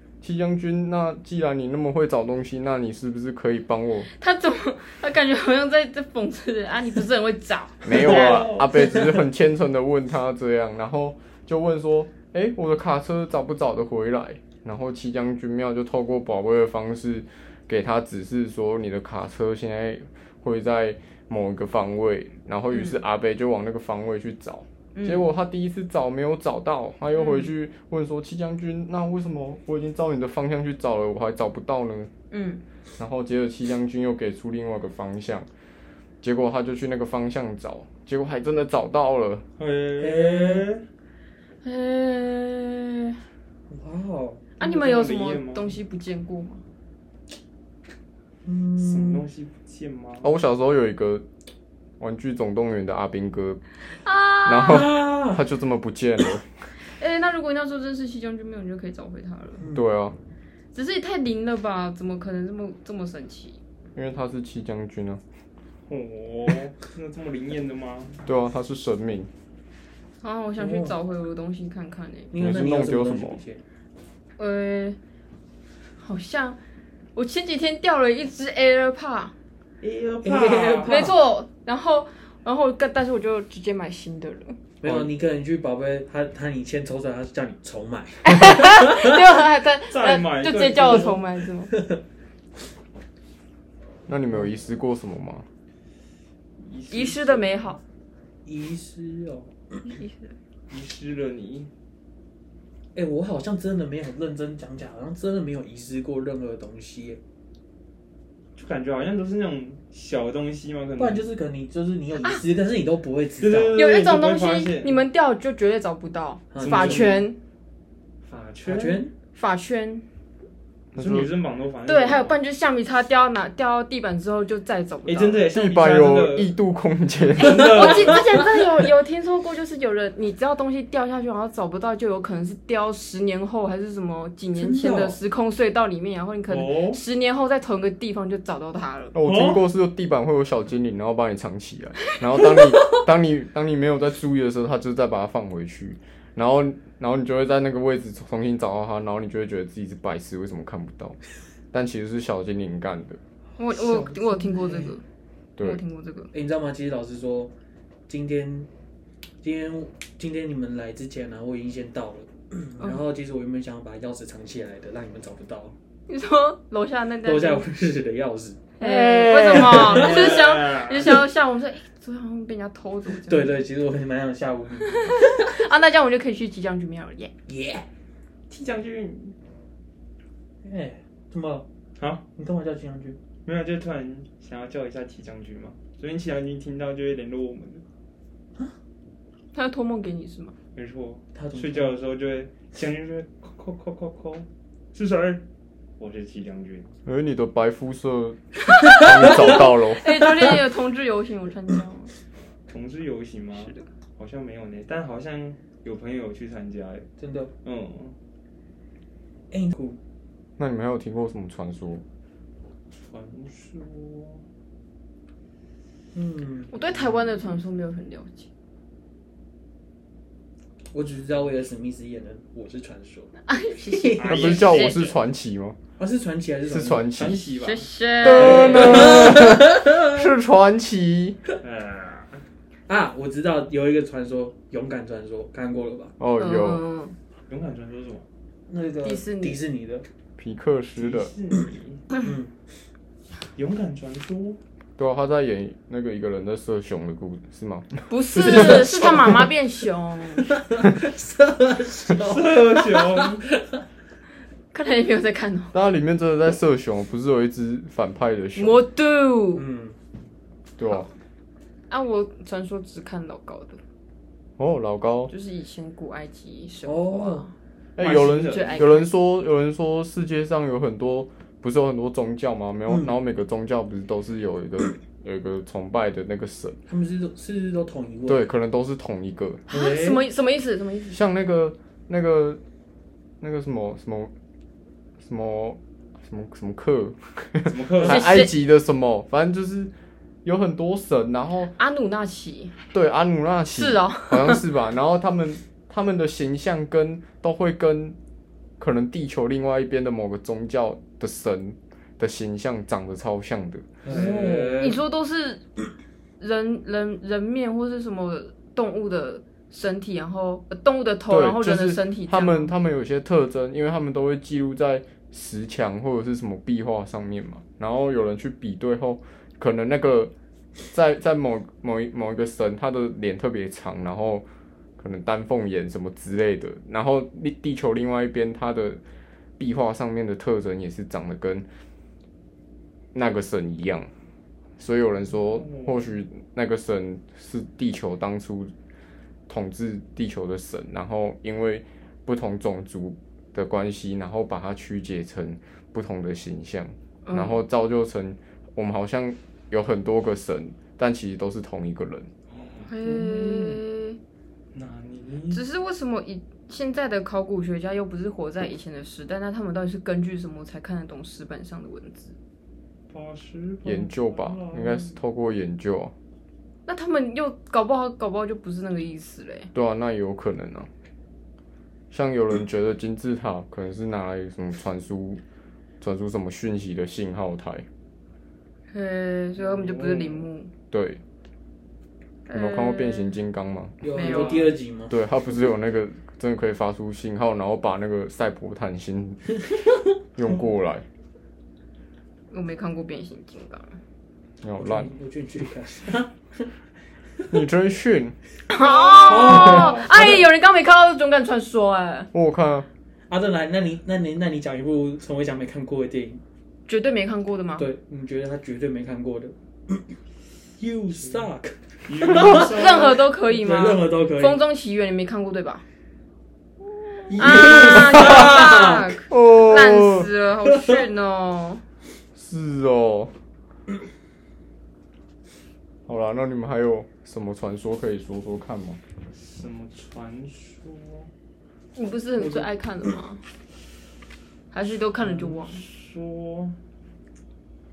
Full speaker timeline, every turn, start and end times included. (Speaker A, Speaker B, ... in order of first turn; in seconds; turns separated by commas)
Speaker A: 0.2-4.1, Speaker B: 4.2-8.5, Speaker A: 7.8-32.1, Speaker C: 8.0-8.7, Speaker B: 22.7-23.0, Speaker B: 24.9-25.3, Speaker B: 27.1-27.5, Speaker B: 32.3-32.6, Speaker A: 33.0-35.5, Speaker A: 36.2-39.4, Speaker C: 39.6-40.8, Speaker D: 40.0-40.7, Speaker B: 41.6-43.2, Speaker D: 43.7-44.5, Speaker B: 44.6-46.6, Speaker C: 44.6-45.8, Speaker D: 48.4-49.3, Speaker C: 48.8-50.3, Speaker A: 50.2-51.2, Speaker A: 52.0-53.6, Speaker B: 53.9-54.9, Speaker A: 54.4-56.5, Speaker D: 54.6-55.4, Speaker B: 56.8-59.6, Speaker A: 59.7-60.1, Speaker B: 60.7-63.6, Speaker A: 63.9-65.2, Speaker C: 65.9-68.2, Speaker A: 68.2-69.3, Speaker B: 70.2-72.3, Speaker D: 70.6-71.0, Speaker D: 72.3-73.6, Speaker A: 72.3-73.4, Speaker B: 74.4-75.0, Speaker B: 76.0-76.6, Speaker B: 77.1-79.3, Speaker C: 79.8-81.0, Speaker D: 80.2-81.2, Speaker B: 80.8-84.6, Speaker D: 84.8-88.8, Speaker A: 84.8-85.1, Speaker B: 88.2-91.8, Speaker C: 89.9-91.2, Speaker A: 94.1-95.5, Speaker C: 96.6-97.8, Speaker B: 96.9-97.8, Speaker D: 98.4-99.5, Speaker B: 99.8-100.3, Speaker C: 100.7-101.7, Speaker D: 102.9-107.2, Speaker C: 108.6-111.2, Speaker D: 111.0-113.8, Speaker C: 113.4-115.0, Speaker B: 113.8-117.4, Speaker D: 116.5-117.2, Speaker C: 116.6-117.2, Speaker C: 118.2-119.1, Speaker D: 118.6-119.1, Speaker B: 119.3-120.0, Speaker C: 120.9-122.4, Speaker A: 121.0-121.3, Speaker B: 121.8-125.5, Speaker C: 125.0-126.5, Speaker A: 125.5-128.0, Speaker C: 127.4-128.2, Speaker B: 127.4-139.1, Speaker D: 134.5-135.2, Speaker C: 136.5-137.0, Speaker A: 139.1-151.2, Speaker C: 139.2-139.7, Speaker A: 151.7-153.2, Speaker B: 153.6-155.0, Speaker D: 153.7-155.0, Speaker B: 155.6-156.3, Speaker D: 156.3-157.5, Speaker D: 158.1-158.7, Speaker D: 159.4-165.7, Speaker B: 166.1-167.7, Speaker D: 167.2-168.7, Speaker B: 168.8-173.6, Speaker C: 168.8-171.2, Speaker D: 169.5-170.4, Speaker D: 173.1-175.4, Speaker B: 175.0-177.3, Speaker D: 177.5-177.8, Speaker C: 178.5-179.3, Speaker D: 180.6-181.7, Speaker C: 182.0-182.2, Speaker D: 182.3-183.2, Speaker C: 183.4-187.8, Speaker B: 189.5-190.5, Speaker C: 190.7-195.4, Speaker D: 191.3-191.9, Speaker C: 196.0-196.9, Speaker A: 197.1-200.3, Speaker B: 198.7-202.1, Speaker C: 202.7-207.1, Speaker B: 203.6-203.8, Speaker D: 207.2-207.5, Speaker C: 207.6-208.1, Speaker D: 209.5-210.0, Speaker A: 210.6-212.0, Speaker C: 213.0-214.4, Speaker D: 216.1-216.8, Speaker B: 216.7-218.5, Speaker D: 220.9-223.3, Speaker B: 223.5-225.2, Speaker D: 223.8-224.4, Speaker C: 224.1-224.9, Speaker A: 224.2-225.8, Speaker D: 226.0-227.1, Speaker A: 226.6-227.4, Speaker C: 227.1-227.9, Speaker B: 227.6-229.3, Speaker A: 228.2-231.4, Speaker D: 228.3-230.0, Speaker C: 228.4-229.0, Speaker C: 231.6-232.4, Speaker D: 232.9-236.1, Speaker A: 236.2-236.8, Speaker B: 236.3-237.2, Speaker C: 237.5-238.2, Speaker D: 238.7-240.1, Speaker B: 239.0-239.6, Speaker A: 240.4-241.3, Speaker C: 240.9-242.1, Speaker D: 242.2-242.5, Speaker C: 243.6-244.6, Speaker A: 245.0-248.8, Speaker B: 248.1-250.5, Speaker D: 248.3-249.5, Speaker D: 250.4-253.7, Speaker C: 252.2-253.5, Speaker B: 254.7-255.8, Speaker A: 255.7-258.8, Speaker B: 258.6-259.6, Speaker D: 259.5-259.9, Speaker A: 260.8-261.1, Speaker B: 261.9-263.8, Speaker A: 264.6-265.3, Speaker B: 265.3-267.5, Speaker D: 266.8-267.5, Speaker C: 268.0-268.9, Speaker A: 268.0-276.8, Speaker B: 268.1-269.1, Speaker D: 276.9-278.5, Speaker A: 278.3-279.6, Speaker B: 279.7-281.2, Speaker D: 279.7-280.2, Speaker A: 281.1-282.6, Speaker A: 283.4-284.3, Speaker A: 285.2-289.9, Speaker C: 287.7-288.2, Speaker B: 288.0-288.5, Speaker A: 290.4-291.7, Speaker B: 291.6-292.7, Speaker A: 292.9-298.1, Speaker B: 293.7-294.6, Speaker A: 298.8-303.9, Speaker D: 304.0-305.0, Speaker C: 304.1-304.9, Speaker B: 304.8-305.6, Speaker B: 306.4-312.7, Speaker A: 311.3-320.3, Speaker A: 320.9-324.4, Speaker A: 325.0-329.0, Speaker A: 329.6-331.7, Speaker A: 333.1-334.1, Speaker A: 334.8-338.7, Speaker C: 335.3-336.2, Speaker A: 339.5-352.3, Speaker B: 347.2-347.6, Speaker C: 352.5-352.9, Speaker B: 352.9-354.2, Speaker D: 353.0-353.8, Speaker C: 354.7-355.6, Speaker B: 355.5-362.3, Speaker C: 363.1-365.1, Speaker A: 363.8-366.1, Speaker B: 366.9-369.7, Speaker A: 369.7-370.9, Speaker A: 372.1-375.4, Speaker A: 376.0-377.9, Speaker B: 378.9-380.7, Speaker C: 379.6-380.5, Speaker A: 380.9-381.2, Speaker B: 382.5-383.3, Speaker A: 382.5-384.1, Speaker D: 384.0-385.2, Speaker B: 384.1-384.7, Speaker A: 385.1-389.5, Speaker A: 390.4-391.0, Speaker B: 392.5-394.0, Speaker A: 394.6-395.1, Speaker D: 394.8-396.7, Speaker A: 397.5-398.4, Speaker B: 398.7-402.3, Speaker C: 398.8-400.0, Speaker D: 399.2-400.4, Speaker A: 402.3-402.9, Speaker D: 403.3-406.4, Speaker B: 406.9-407.9, Speaker D: 407.8-410.0, Speaker D: 410.8-412.8, Speaker C: 411.2-411.5, Speaker C: 412.1-413.2, Speaker B: 412.5-415.8, Speaker D: 413.4-414.6, Speaker D: 417.3-419.0, Speaker B: 417.4-421.8, Speaker A: 418.1-418.4, Speaker A: 419.3-420.3, Speaker D: 420.6-421.0, Speaker A: 422.3-423.3, Speaker A: 426.1-429.0, Speaker C: 429.3-431.3, Speaker B: 431.9-433.4, Speaker D: 432.4-432.6, Speaker B: 434.7-435.8, Speaker C: 435.2-436.8